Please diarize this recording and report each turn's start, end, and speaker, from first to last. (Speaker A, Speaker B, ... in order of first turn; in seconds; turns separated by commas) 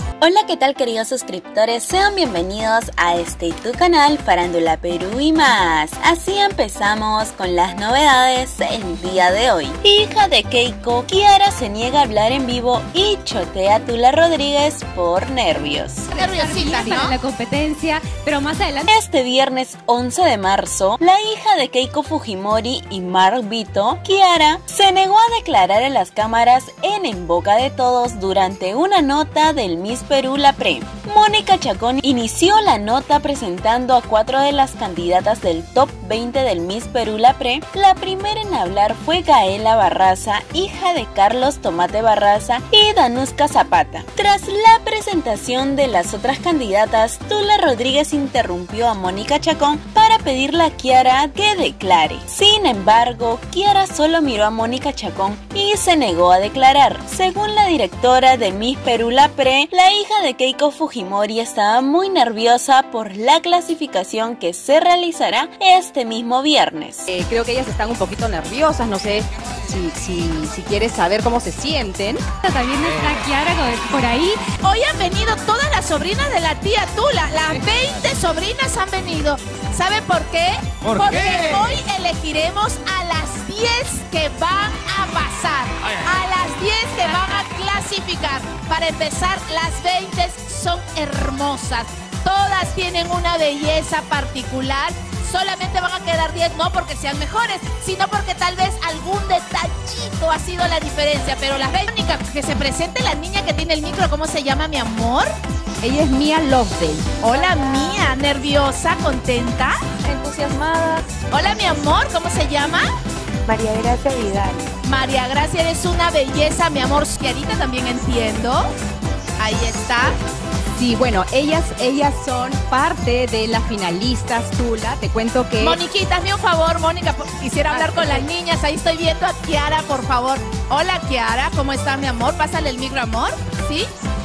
Speaker A: 0.2-16.1, Speaker B: 16.1-17.1, Speaker C: 16.1-18.9, Speaker A: 18.9-67.1, Speaker D: 67.1-72.2, Speaker C: 72.4-74.4, Speaker B: 74.6-105.3, Speaker C: 87.0-87.4, Speaker D: 105.8-107.3, Speaker B: 107.2-109.8, Speaker E: 107.3-108.1, Speaker E: 110.0-111.1, Speaker B: 111.3-112.9, Speaker E: 113.5-114.7, Speaker B: 114.8-118.7, Speaker B: 119.4-120.1, Speaker D: 120.8-125.8, Speaker B: 125.6-133.9, Speaker D: 127.7-128.3